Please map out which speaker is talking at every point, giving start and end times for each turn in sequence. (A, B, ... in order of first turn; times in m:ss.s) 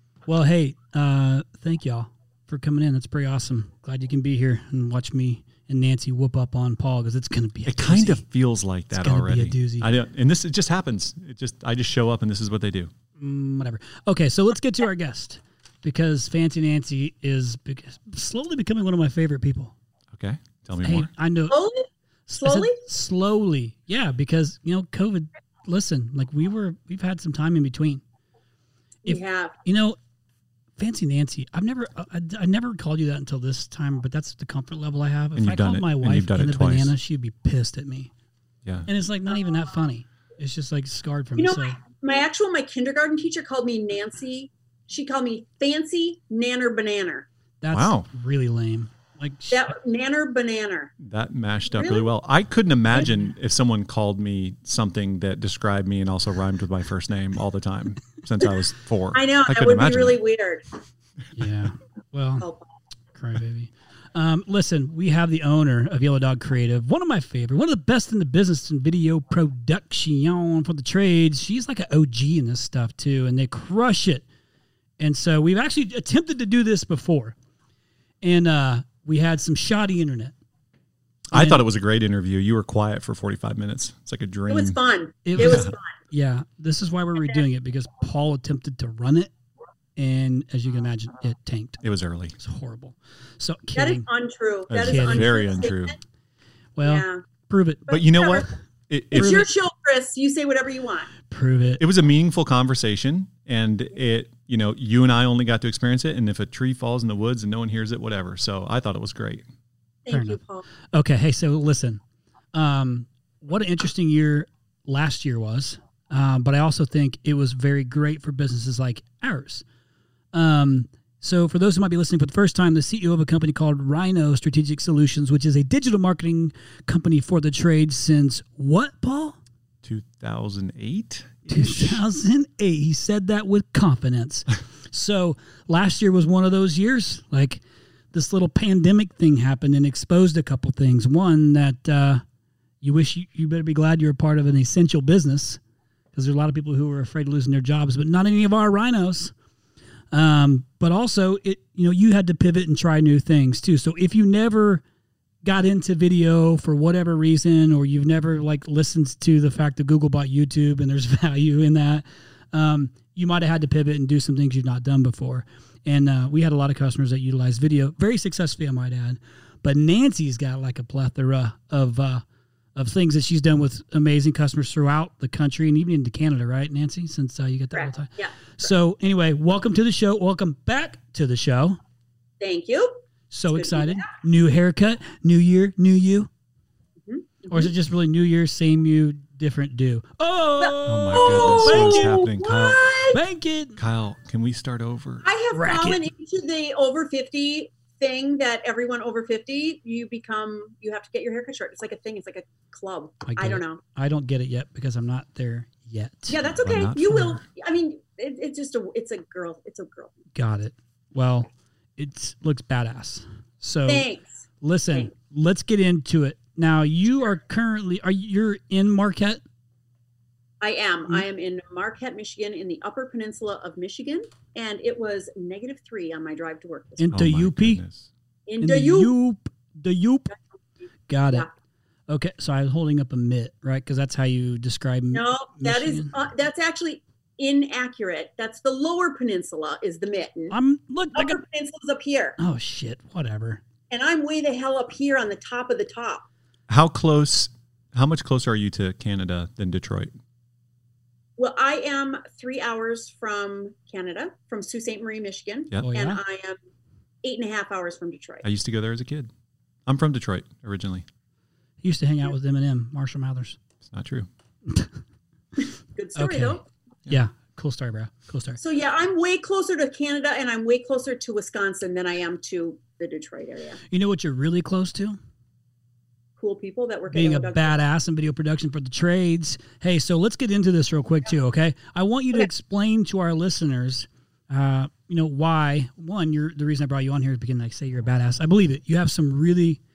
0:00.3-0:08.2 A
0:07.7-0:12.9 B
0:08.9-0:09.9 A
0:13.2-0:19.7 A
0:20.1-0:21.1 B
0:20.8-0:21.6 A
0:21.5-0:21.9 C
0:22.3-0:28.0 A
0:22.4-0:22.8 C
0:29.0-0:30.0 A
0:29.1-0:29.5 C
0:30.8-0:38.1 A
0:35.4-0:36.9 B
0:38.9-0:41.8 A
0:41.4-0:47.3 C
0:47.6-0:49.6 A
0:47.7-0:48.1 B
0:49.5-0:50.9 C
0:51.0-1:00.2 B
0:51.8-0:52.1 C
0:59.1-1:00.6 C
1:01.4-1:02.5 A
1:02.4-1:02.7 C
1:03.2-1:14.2 A
1:15.0-1:17.4 A
1:18.2-1:20.3 A
1:21.3-1:24.8 B
1:21.3-1:21.6 A
1:24.5-1:25.8 C
1:25.2-1:29.3 A
1:25.4-1:25.7 B
1:30.0-1:31.8 A
1:31.8-1:32.4 B
1:32.4-1:34.1 A
1:33.8-1:36.0 C
1:34.7-1:36.0 B
1:34.8-1:35.6 A
1:36.8-1:37.9 A
1:36.8-1:37.2 C
1:37.9-1:38.5 C
1:37.9-1:39.4 B
1:39.1-1:41.1 C
1:39.2-1:39.4 A
1:41.3-1:41.8 A
1:41.8-1:49.5 B
1:50.1-1:50.6 C
1:50.1-1:50.4 A
1:50.9-1:52.0 A
1:52.5-1:59.6 A
2:00.3-2:09.4 A
2:09.8-2:12.0 B
2:11.5-2:17.6 A
2:18.1-2:22.2 A
2:22.8-2:25.6 A
2:26.1-2:29.3 A
2:30.1-2:34.8 A
2:35.4-2:52.2 A
2:52.8-3:01.8 A
2:57.7-2:58.3 C
3:02.4-3:03.0 C
3:03.3-3:06.3 A
3:03.5-3:04.1 C
3:07.1-3:07.7 C
3:07.5-3:12.2 A
3:10.6-3:13.2 C
3:10.9-3:12.8 B
3:13.1-3:13.8 A
3:13.8-3:15.3 B
3:15.2-3:23.8 C
3:15.5-3:16.0 A
3:23.3-3:27.4 A
3:26.3-3:30.1 C
3:26.6-3:27.2 B
3:30.4-3:34.1 A
3:33.9-3:34.4 C
3:34.6-3:39.4 A
3:40.6-3:47.1 C
3:47.0-3:47.8 A
3:47.1-3:48.1 B
3:48.5-3:49.1 C
3:48.6-3:50.3 A
3:51.1-3:51.5 A
3:52.1-3:56.1 A
3:55.1-4:00.6 C
4:00.5-4:01.4 A
4:01.1-4:02.4 C
4:02.4-4:03.6 A
4:03.9-4:06.3 C
4:06.7-4:10.1 B
4:11.4-4:16.6 C
4:15.8-4:16.2 A
4:17.2-4:18.4 C
4:18.4-4:19.3 B
4:19.9-4:21.1 B
4:21.8-4:23.6 A
4:23.9-4:24.3 B
4:26.0-4:26.6 C
4:26.2-4:28.6 A
4:28.6-4:33.8 C
4:33.9-4:35.2 A
4:36.4-4:37.8 C
4:37.1-4:49.8 A